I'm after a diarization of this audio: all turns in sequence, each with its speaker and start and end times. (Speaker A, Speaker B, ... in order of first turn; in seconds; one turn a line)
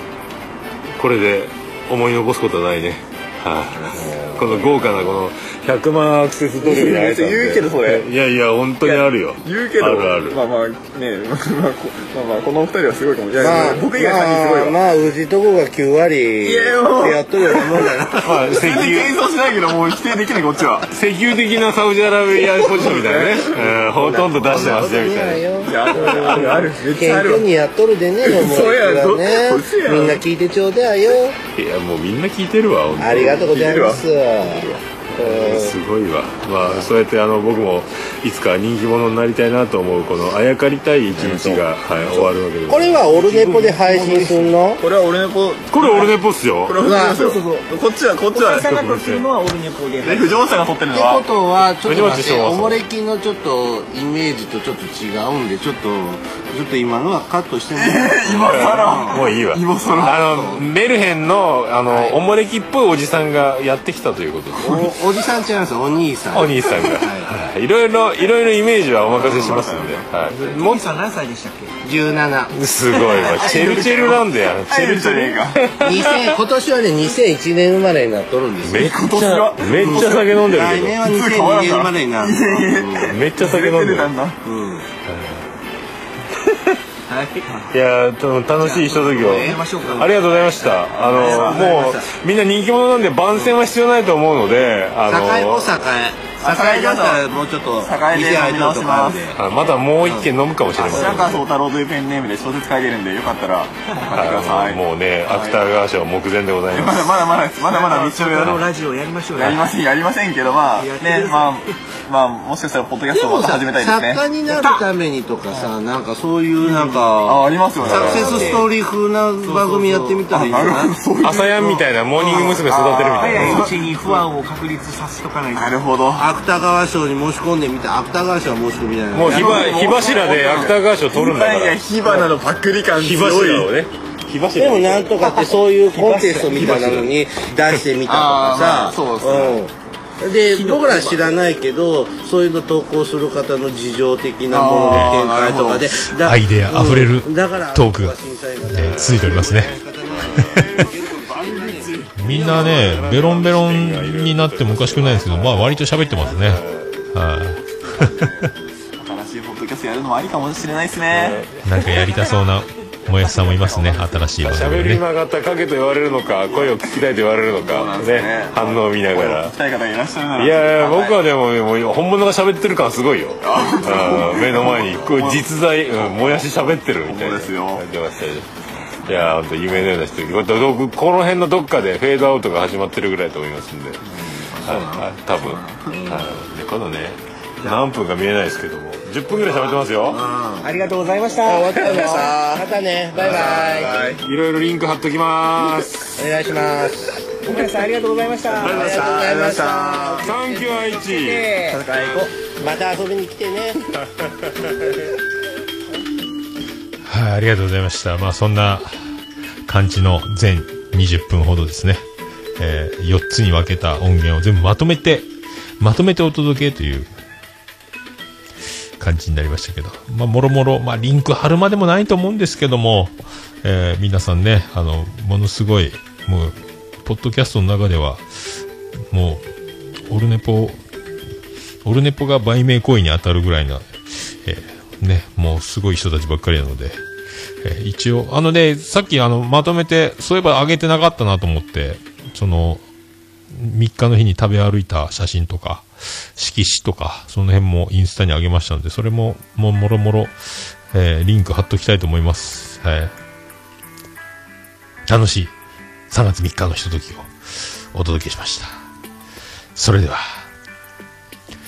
Speaker A: 0.9-10.4
Speaker B: 3.8-4.9
Speaker B: 6.6-8.1
Speaker B: 8.8-14.8
Speaker C: 13.4-18.6
Speaker B: 16.4-20.9
Speaker A: 18.2-19.1
Speaker A: 20.9-26.6
Speaker B: 22.4-23.7
Speaker C: 23.8-31.4
Speaker B: 25.6-27.5
Speaker B: 28.2-30.2
Speaker A: 31.5-33.4
Speaker C: 33.0-35.8
Speaker B: 33.1-34.8
Speaker A: 35.1-43.0
Speaker B: 41.1-42.3
Speaker C: 42.7-44.8
Speaker D: 43.0-44.5
Speaker B: 44.8-46.1
Speaker A: 45.7-46.7
Speaker B: 46.6-48.9
Speaker C: 46.8-47.2
Speaker D: 46.9-47.7
Speaker D: 48.3-50.4
Speaker A: 48.8-49.2
Speaker B: 50.0-51.2
Speaker C: 50.9-59.2
Speaker A: 51.8-52.8
Speaker B: 57.7-60.2
Speaker A: 58.5-65.0
Speaker C: 60.0-60.6
Speaker C: 61.9-62.2
Speaker C: 64.6-67.3
Speaker A: 66.3-70.8
Speaker B: 69.1-70.1
Speaker D: 70.3-71.8
Speaker C: 71.8-72.5
Speaker A: 72.5-76.3
Speaker B: 73.0-75.6
Speaker C: 75.8-79.0
Speaker A: 78.6-81.0
Speaker B: 78.7-80.3
Speaker C: 79.7-83.2
Speaker B: 81.0-84.4
Speaker A: 83.1-84.1
Speaker C: 84.4-84.8
Speaker A: 85.1-85.4
Speaker D: 87.1-87.6
Speaker A: 87.7-95.8
Speaker D: 88.6-90.3
Speaker C: 89.2-89.6
Speaker B: 91.0-91.6
Speaker C: 91.1-92.1
Speaker C: 95.0-99.4
Speaker B: 96.4-97.3
Speaker B: 97.8-99.3
Speaker A: 99.3-101.4
Speaker C: 100.0-100.3
Speaker B: 100.8-105.7
Speaker A: 104.1-107.1
Speaker B: 106.7-108.7
Speaker D: 107.6-109.7
Speaker B: 109.3-114.2
Speaker D: 110.8-111.7
Speaker C: 113.1-120.9
Speaker D: 114.5-114.8
Speaker B: 117.1-118.6
Speaker A: 117.8-118.6
Speaker D: 117.9-118.7
Speaker D: 119.4-120.3
Speaker B: 120.3-124.3
Speaker A: 121.2-123.7
Speaker D: 122.3-122.6
Speaker D: 123.2-125.8
Speaker C: 123.3-123.7
Speaker B: 125.5-126.3
Speaker C: 126.1-130.0
Speaker A: 129.1-132.2
Speaker B: 129.2-133.7
Speaker A: 133.0-135.1
Speaker C: 134.6-152.0
Speaker D: 135.2-137.0
Speaker B: 138.1-139.6
Speaker B: 140.6-140.8
Speaker D: 140.6-141.1
Speaker B: 144.5-146.1
Speaker E: 146.2-148.2
Speaker E: 148.7-149.8
Speaker A: 148.8-149.3
Speaker B: 150.1-153.0
Speaker A: 150.1-150.5
Speaker E: 150.4-150.7
Speaker E: 152.2-158.3
Speaker A: 152.2-156.9
Speaker B: 157.6-161.4
Speaker A: 161.1-162.1
Speaker E: 161.6-165.0
Speaker A: 164.2-169.5
Speaker B: 166.5-166.9
Speaker B: 167.5-171.2
Speaker A: 170.3-178.5
Speaker B: 173.4-176.4
Speaker B: 177.0-177.8
Speaker A: 179.0-184.0
Speaker B: 184.1-185.9
Speaker A: 184.6-190.2
Speaker C: 185.9-186.3
Speaker C: 190.1-190.7
Speaker D: 190.6-192.2
Speaker C: 191.4-193.9
Speaker B: 191.7-192.7
Speaker A: 193.2-196.3
Speaker B: 193.2-194.2
Speaker C: 196.0-197.2
Speaker D: 197.4-199.2
Speaker B: 198.5-200.2
Speaker C: 198.6-200.3
Speaker A: 200.2-201.6
Speaker D: 200.2-202.3
Speaker B: 201.6-202.3
Speaker C: 202.6-203.9
Speaker A: 204.6-204.9
Speaker E: 207.1-208.9
Speaker E: 209.7-212.0
Speaker E: 212.6-215.3
Speaker E: 215.8-217.1
Speaker E: 219.0-228.6
Speaker E: 229.1-229.4
Speaker E: 230.1-230.8
Speaker E: 231.8-237.0
Speaker E: 237.6-242.8
Speaker E: 243.5-250.3
Speaker E: 250.9-253.1
Speaker E: 255.1-255.5
Speaker E: 256.1-258.7
Speaker E: 259.7-260.2